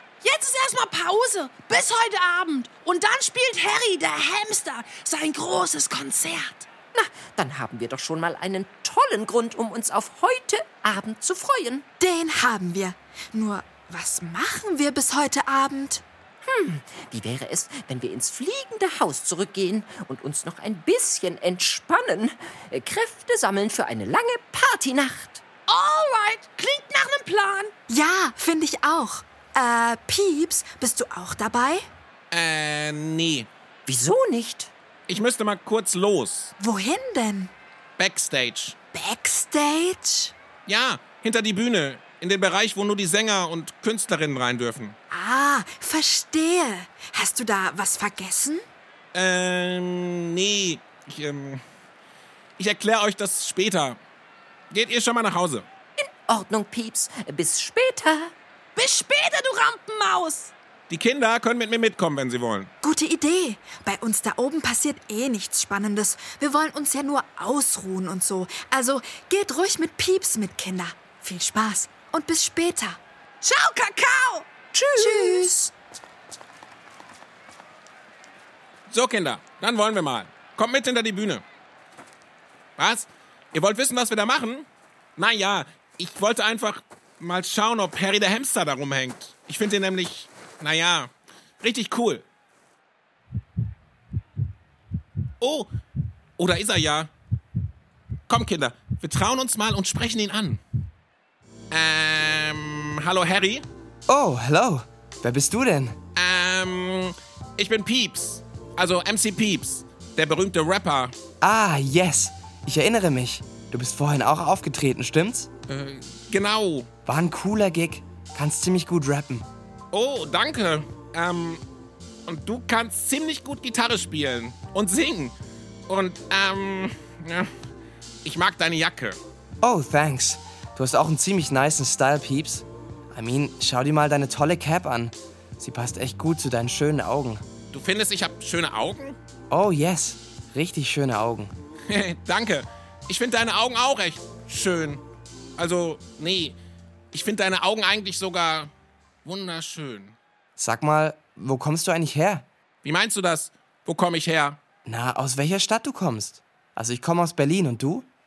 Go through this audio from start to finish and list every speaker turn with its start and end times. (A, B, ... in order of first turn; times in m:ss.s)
0:00.2-0:06.6 A
0:06.9-0:11.8 B
0:12.0-0:16.0 C
0:16.4-0:25.4 B
0:25.7-0:27.7 A
0:27.9-0:31.8 C
0:32.3-0:33.5 D
0:33.9-0:34.7 B
0:35.1-0:36.5 D
0:36.6-0:37.5 C
0:38.0-0:38.7 D
0:38.9-0:40.3 C
0:40.7-0:45.0 D
0:45.1-0:48.6 C
0:49.1-0:51.6 D
0:52.6-0:54.0 D
0:54.7-0:55.6 D
0:56.0-0:58.3 B
0:58.8-1:00.5 A
1:00.9-1:02.7 D
1:02.8-1:13.0 C
1:13.4-1:14.5 A
1:14.7-1:15.2 B
1:15.0-1:15.7 C
1:18.9-1:21.4 D
1:22.8-1:24.6 D
1:25.2-1:31.1 D
1:31.6-1:32.2 D
1:35.4-1:35.7 D
1:36.4-1:37.1 D
1:38.3-1:40.6 D
1:41.7-1:43.6 D
1:44.1-1:46.0 E
1:46.2-1:51.1 D
1:51.4-1:55.5 E
1:55.7-1:56.9 D
1:57.0-1:59.4 E
1:59.9-2:01.6 D
2:02.3-2:05.3 D
2:05.9-2:07.5 D
2:08.2-2:09.2 D
2:09.6-2:17.4 E
2:17.7-2:19.2 D
2:19.5-2:21.5 E
2:21.9-2:25.0 D
2:25.6-2:26.6 D
2:27.1-2:28.7 D
2:29.2-2:30.2 D
2:30.6-2:32.4 E
2:32.8-2:34.6 D
2:34.8-2:38.0 E